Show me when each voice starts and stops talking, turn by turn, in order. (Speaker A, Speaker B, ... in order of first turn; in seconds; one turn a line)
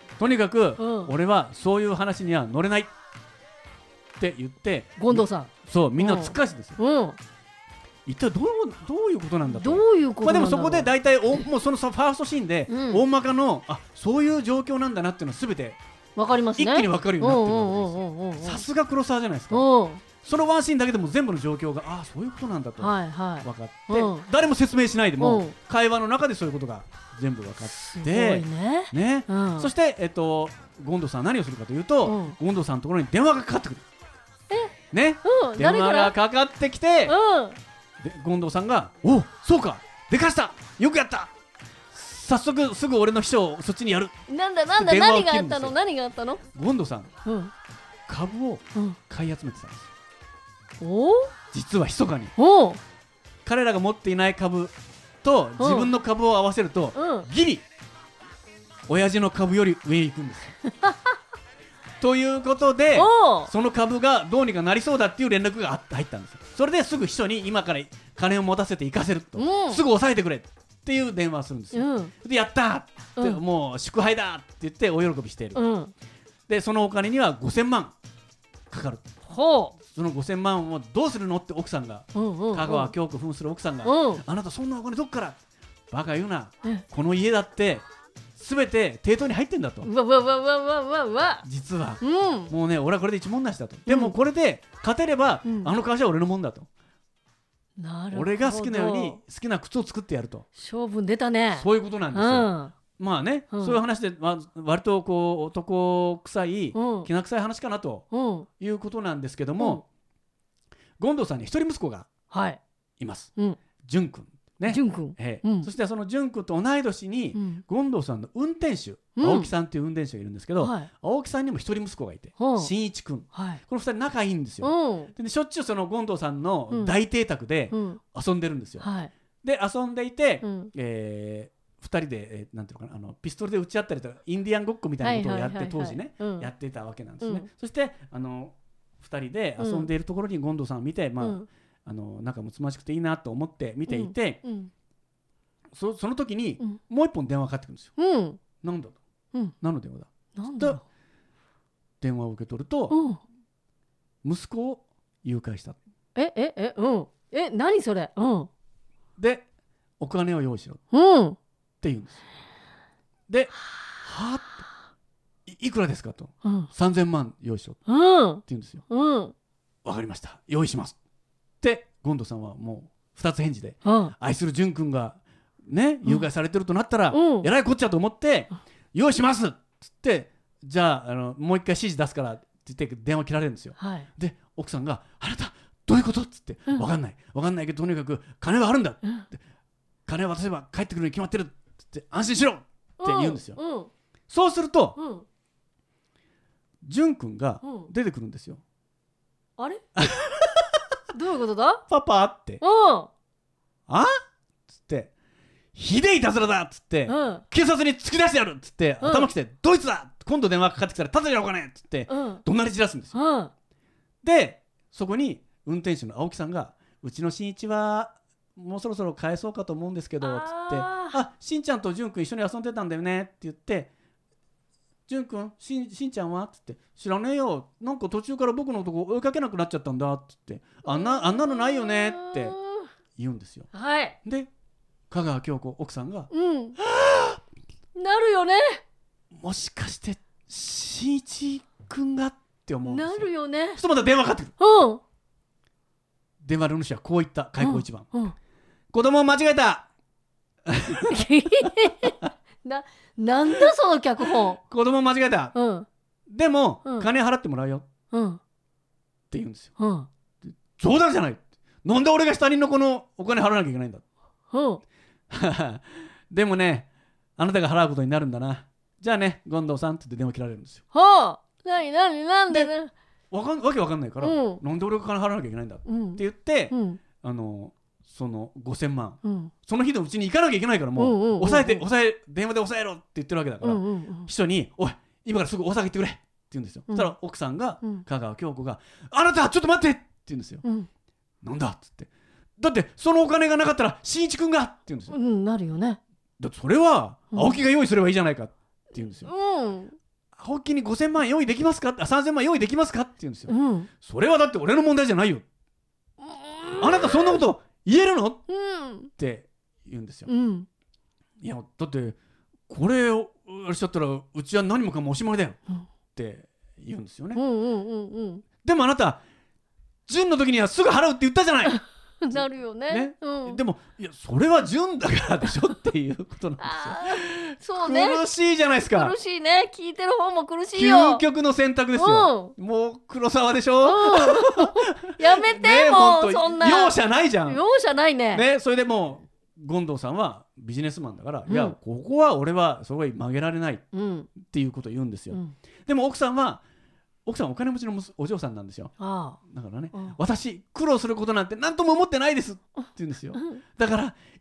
Speaker A: 0.2-2.9
Speaker B: 0.8-1.1
Speaker A: 4.2-6.8
Speaker B: 5.0-7.2
Speaker A: 8.1-15.8
Speaker B: 9.5-10.9
Speaker B: 12.7-13.0
Speaker B: 16.1-18.6
Speaker A: 16.6-19.6
Speaker B: 19.5-20.0
Speaker A: 20.2-33.8
Speaker B: 22.8-24.2
Speaker B: 25.2-25.5
Speaker B: 27.7-29.7
Speaker B: 32.0-32.4
Speaker B: 34.5-36.1
Speaker A: 34.9-37.1
Speaker B: 37.0-37.6
Speaker A: 38.0-41.3
Speaker A: 41.9-44.1
Speaker B: 44.3-46.4
Speaker A: 44.7-45.7
Speaker A: 46.5-47.1
Speaker B: 47.2-47.5
Speaker A: 48.1-49.9
Speaker B: 50.8-51.3
Speaker A: 51.5-52.3
Speaker B: 52.4-52.8
Speaker A: 53.4-57.6
Speaker B: 55.6-55.9
Speaker B: 57.0-57.3
Speaker A: 58.9-60.5
Speaker B: 60.7-61.1
Speaker A: 62.0-75.6
Speaker B: 62.9-63.5
Speaker B: 69.3-69.8
Speaker B: 71.7-72.1
Speaker B: 75.5-75.9
Speaker A: 76.5-77.9
Speaker A: 78.7-79.1
Speaker B: 79.3-79.7
Speaker A: 79.8-85.4
Speaker B: 82.1-82.9
Speaker B: 83.8-84.2
Speaker A: 85.9-87.8
Speaker A: 88.3-89.9
Speaker B: 89.8-91.4
Speaker A: 91.4-96.7
Speaker B: 92.0-92.5
Speaker B: 93.9-94.1
Speaker B: 95.5-95.7
Speaker B: 97.8-99.2
Speaker A: 98.1-100.5
Speaker B: 100.6-102.7
Speaker A: 101.5-108.1
Speaker B: 103.5-103.8
Speaker B: 106.7-107.1
Speaker B: 108.1-108.5
Speaker A: 108.6-109.8
Speaker A: 111.0-112.1
Speaker B: 112.3-112.6
Speaker A: 113.0-128.9
Speaker B: 114.7-115.7
Speaker B: 117.3-117.6
Speaker B: 119.2-119.5
Speaker B: 120.6-120.9
Speaker B: 122.4-122.7
Speaker B: 123.3-123.6
Speaker B: 124.6-125.1
Speaker B: 126.7-127.0
Speaker B: 127.7-128.0
Speaker B: 128.8-129.1
Speaker A: 129.4-144.4
Speaker B: 130.4-130.7
Speaker B: 135.0-136.5
Speaker B: 139.6-139.9
Speaker B: 141.2-141.5
Speaker B: 143.9-144.7
Speaker A: 145.7-147.9
Speaker B: 148.0-148.4
Speaker A: 148.6-149.0
Speaker A: 149.6-150.8
Speaker B: 150.3-150.8
Speaker A: 152.0-153.0
Speaker B: 152.9-153.2
Speaker A: 154.2-155.8
Speaker B: 156.1-158.5
Speaker A: 159.2-159.4
Speaker A: 160.0-160.8
Speaker B: 160.9-161.4
Speaker A: 161.8-162.2
Speaker A: 163.3-164.6
Speaker A: 165.4-167.8
Speaker B: 166.4-166.7
Speaker B: 167.9-169.3
Speaker A: 168.4-168.8
Speaker A: 169.8-170.9
Speaker A: 171.6-189.4
Speaker B: 173.8-174.1
Speaker B: 177.1-177.5
Speaker B: 183.8-184.1
Speaker A: 190.1-193.6
Speaker B: 193.0-193.9
Speaker A: 194.3-195.0
Speaker B: 195.0-195.2
Speaker A: 196.8-198.6
Speaker B: 197.6-197.9
Speaker B: 199.6-199.8
Speaker A: 199.9-200.8
Speaker B: 201.1-201.8
Speaker A: 201.9-202.6
Speaker B: 202.6-203.1
Speaker A: 203.9-204.2
Speaker A: 204.8-205.1
Speaker A: 205.7-213.2
Speaker B: 207.1-207.4
Speaker B: 209.0-209.3
Speaker B: 212.1-212.4
Speaker B: 213.1-213.5
Speaker A: 214.2-223.9
Speaker B: 220.2-221.2
Speaker A: 225.1-232.6
Speaker B: 230.8-232.9
Speaker A: 233.2-233.7
Speaker B: 233.7-234.2
Speaker A: 234.2-234.5
Speaker A: 235.1-237.4
Speaker B: 236.3-236.8
Speaker B: 237.9-238.8
Speaker A: 239.3-244.5
Speaker B: 242.9-243.8
Speaker B: 244.6-245.0
Speaker A: 246.4-248.1
Speaker B: 247.6-248.3
Speaker A: 248.9-249.9
Speaker A: 250.7-251.3
Speaker B: 251.1-254.6
Speaker A: 254.6-255.5
Speaker B: 255.5-255.9
Speaker A: 256.3-257.9
Speaker B: 258.1-258.4
Speaker A: 259.3-259.7
Speaker B: 259.8-260.1
Speaker A: 260.4-264.0
Speaker B: 264.5-264.8
Speaker A: 265.3-270.8
Speaker B: 270.9-272.9
Speaker A: 273.3-290.6
Speaker B: 274.2-274.6
Speaker B: 275.9-277.0
Speaker B: 279.2-279.5
Speaker B: 281.0-281.8
Speaker B: 283.6-284.3
Speaker A: 291.4-295.2
Speaker B: 295.1-296.0
Speaker A: 296.4-299.3
Speaker B: 297.3-297.6
Speaker B: 299.2-299.9
Speaker A: 300.4-305.4
Speaker B: 303.5-303.9
Speaker B: 306.2-307.4
Speaker A: 306.8-308.4
Speaker B: 308.5-309.1
Speaker A: 309.1-310.3
Speaker B: 310.3-310.7
Speaker A: 311.4-312.2
Speaker A: 312.7-315.6
Speaker A: 316.1-317.4
Speaker B: 317.3-318.4
Speaker A: 318.6-319.2
Speaker A: 320.1-329.1
Speaker B: 322.2-323.6
Speaker B: 326.6-328.2
Speaker B: 328.9-331.2
Speaker A: 330.7-337.6
Speaker B: 331.9-332.5
Speaker B: 333.8-338.4
Speaker A: 338.3-346.6
Speaker B: 341.5-341.8
Speaker B: 343.9-344.3
Speaker A: 347.2-354.1
Speaker B: 349.0-349.4